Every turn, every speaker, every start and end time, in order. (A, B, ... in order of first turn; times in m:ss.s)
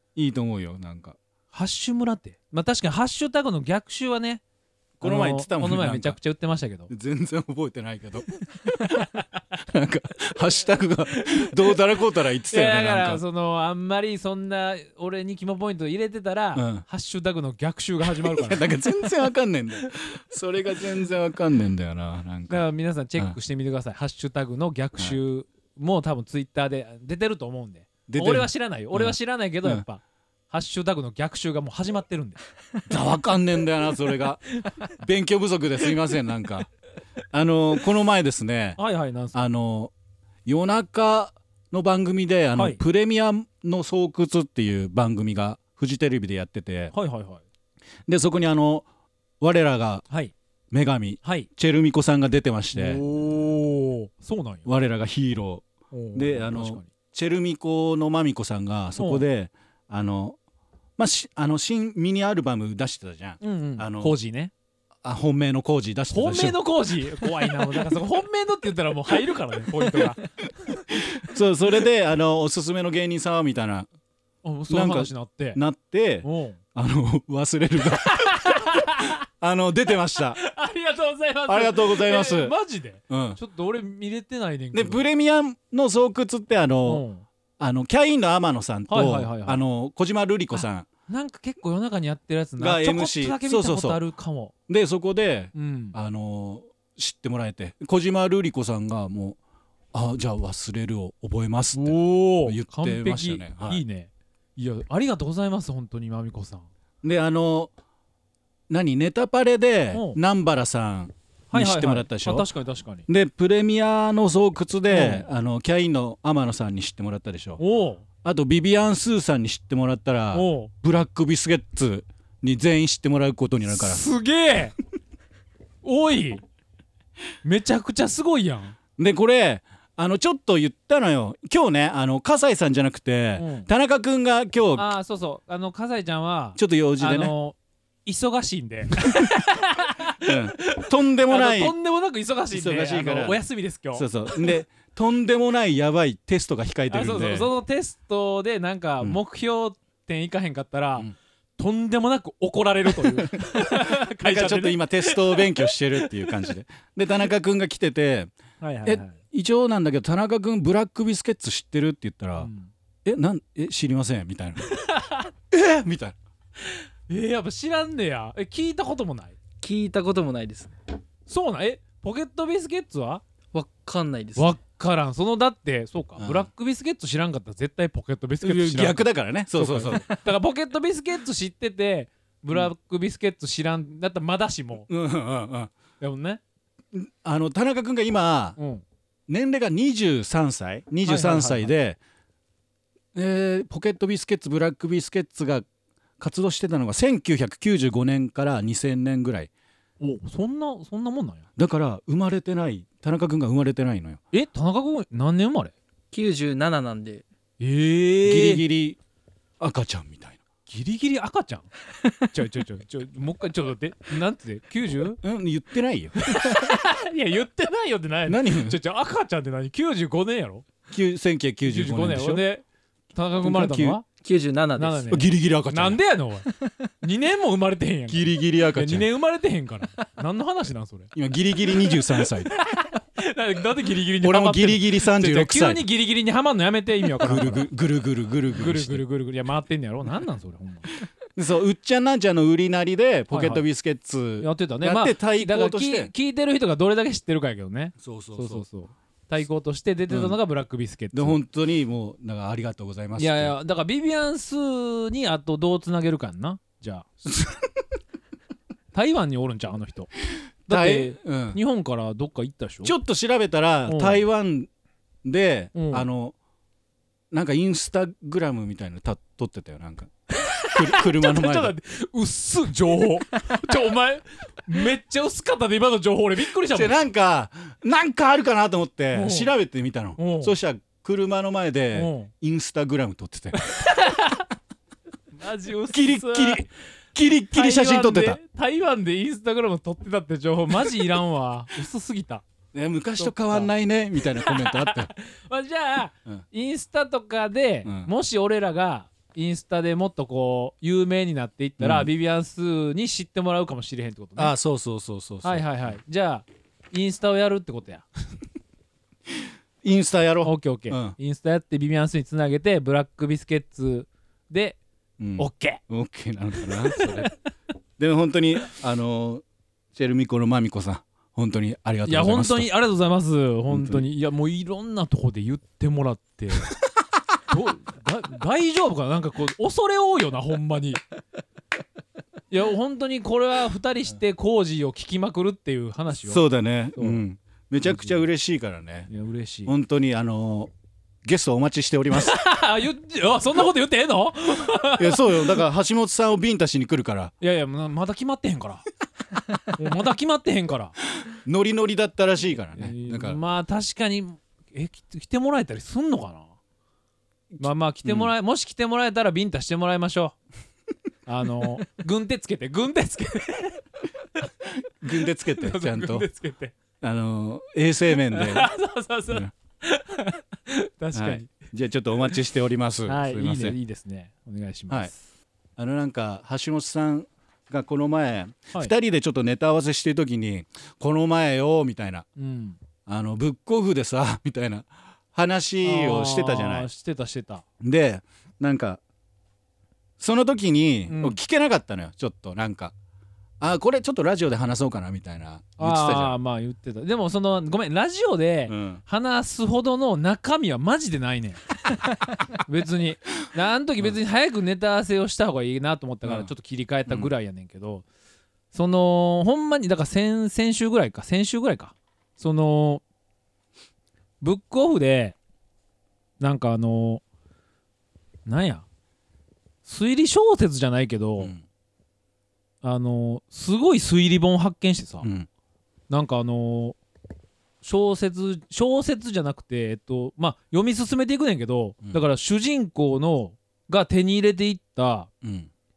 0:00.2-0:01.2 A
0:01.5-0:04.4 B
0:05.0-0:06.2 A
0:05.0-0:06.9 B
0:06.9-0:13.2 A
0:08.8-0:09.2 B
0:11.1-0:11.8 B
0:12.5-0:18.7 B
0:16.5-0:16.8 A
0:18.2-0:22.6 A
0:22.5-0:32.4 B
0:28.1-0:29.8 A
0:32.9-0:36.7 A
0:37.3-0:38.8 A
0:38.8-0:39.4 B
0:39.3-0:39.9 A
0:40.4-0:46.9 A
0:42.6-0:42.8 B
0:46.9-0:47.4 B
0:48.1-0:48.8 A
0:49.4-0:50.0 A
0:50.7-0:53.0 A
0:51.2-0:51.5 B
0:52.7-0:54.7 B
0:54.7-1:00.4 A
0:55.9-0:56.9 B
0:59.0-0:59.2 B
1:01.0-1:04.2 A
1:03.4-1:04.5 B
1:05.0-1:06.6 A
1:06.1-1:11.1 B
1:07.2-1:07.7 A
1:10.9-1:13.9 A
1:14.4-1:15.6 B
1:14.7-1:20.4 A
1:16.2-1:16.6 B
1:18.0-1:19.2 B
1:20.4-1:25.0 B
1:21.5-1:22.5 A
1:23.1-1:23.4 A
1:24.7-1:27.0 A
1:26.8-1:27.2 B
1:27.6-1:30.9 A
1:28.9-1:29.6 B
1:30.5-1:34.5 B
1:32.6-1:34.0 A
1:34.7-1:39.4 A
1:35.5-1:36.0 B
1:39.9-1:43.8 A
1:41.7-1:46.7 B
1:47.0-1:47.7 A
1:48.7-1:52.5 A
1:49.9-1:50.2 B
1:51.5-1:53.1 B
1:53.1-1:57.6 A
1:54.9-1:55.3 B
1:57.6-1:58.0 B
1:58.2-2:04.0 A
2:00.3-2:00.7 B
2:03.7-2:04.8 B
2:05.8-2:06.4 B
2:07.4-2:08.8 B
2:09.0-2:14.9 A
2:13.4-2:13.7 B
2:14.8-2:24.5 B
2:16.6-2:17.3 A
2:20.2-2:21.7 A
2:22.5-2:27.5 A
2:26.9-2:31.1 B
2:31.6-2:36.4 B
2:32.9-2:38.3 A
2:38.6-2:39.2 B
2:38.8-2:42.5 A
2:42.4-2:42.7 B
2:43.0-2:44.7 A
2:44.7-2:45.3 B
2:45.5-2:46.2 A
2:46.7-2:49.3 B
2:49.6-2:50.7 C
2:51.3-2:53.2 B
2:53.5-2:54.5 C
2:54.4-2:59.0 B
2:56.2-2:56.5 A
2:58.4-3:00.2 A
2:59.5-3:04.9 B
3:04.9-3:05.7 A
3:06.0-3:06.4 B
3:06.9-3:08.6 A
3:08.6-3:08.8 B
3:09.3-3:12.0 A
3:11.0-3:11.7 B
3:13.1-3:15.7 A
3:16.2-3:19.5 A
3:20.0-3:21.4 B
3:21.6-3:24.2 A
3:24.3-3:25.7 B
3:26.1-3:27.2 C
3:27.6-3:28.6 B
3:28.2-3:29.0 A
3:29.6-3:30.4 A
3:30.7-3:35.2 B
3:35.2-3:36.1 A
3:36.2-3:40.6 B
3:38.2-3:38.8 A
3:40.9-3:42.4 A
3:41.6-3:44.0 B
3:43.4-3:44.0 A
3:44.2-3:45.1 C
3:44.8-3:46.4 B
3:45.1-3:46.0 A
3:47.0-3:51.1 B
3:48.1-3:49.1 A
3:51.1-3:52.5 A
3:52.4-3:57.6 B
3:54.2-3:55.8 A
3:57.2-3:59.0 A
3:58.5-4:00.9 B
4:01.3-4:06.1 A
4:03.3-4:03.6 B
4:04.4-4:11.4 B
4:08.0-4:08.6 A
4:10.1-4:10.4 A
4:11.1-4:13.6 A
4:13.2-4:17.1 B
4:17.2-4:17.8 A
4:18.9-4:20.1 B
4:20.7-4:21.6 A
4:20.7-4:22.9 B
4:22.8-4:24.7 A
4:23.9-4:24.2 B
4:25.2-4:26.3 A
4:25.8-4:26.0 B
4:27.3-4:30.1 A
4:30.4-4:37.0 B
4:30.7-4:31.7 A
4:36.6-4:43.6 A
4:39.1-4:39.5 B
4:40.2-4:40.5 B
4:41.9-4:42.3 B
4:43.6-4:44.4 B
4:45.4-4:46.7 B
4:45.9-4:48.4 A
4:47.5-4:52.4 B
4:52.7-4:55.1 A
4:53.2-4:53.7 B
4:54.3-5:04.5 B
4:57.8-4:58.1 A
5:01.8-5:02.1 A
5:04.4-5:05.7 A
5:05.4-5:08.1 B
5:09.8-5:11.2 A
5:10.4-5:14.8 B
5:15.2-5:17.3 A
5:15.4-5:15.8 B
5:16.6-5:17.3 B
5:18.0-5:22.7 A
5:22.1-5:26.7 B
5:23.7-5:24.0 A
5:27.5-5:31.0 B
5:32.5-5:36.4 B
5:36.2-5:39.1 A
5:37.0-5:37.2 B
5:37.9-5:38.2 B
5:39.1-5:39.7 B
5:39.6-5:40.7 A
5:41.2-5:42.4 A
5:42.1-5:45.6 B
5:44.9-5:47.3 A
5:47.4-5:48.9 B
5:49.7-5:50.9 B
5:51.2-5:53.4 A
5:52.8-5:56.5 B
5:57.5-5:58.3 A
5:57.6-6:00.4 B
6:01.2-6:03.8 B
6:04.9-6:06.3 A
6:05.2-6:06.8 B
6:07.0-6:08.7 A
6:08.3-6:11.5 B
6:11.1-6:13.8 A
6:13.1-6:15.2 B
6:15.8-6:22.2 A
6:22.4-6:22.8 B
6:23.0-6:26.9 A
6:25.8-6:27.6 B
6:27.8-6:29.0 A
6:30.2-6:32.9 A
6:31.1-6:31.4 B
6:33.6-6:36.4 A
6:35.8-6:41.8 B
6:38.7-6:39.0 A
6:42.5-6:48.0 B
6:46.2-6:46.5 A
6:48.7-6:53.0 B
6:54.4-6:55.4 B
6:56.4-6:57.2 B
6:58.5-6:58.8 B
6:59.8-7:01.5 B
7:02.8-7:05.3 B
7:05.2-7:05.5 A
7:06.1-7:07.0 B
7:07.8-7:15.3 B
7:15.4-7:15.7 A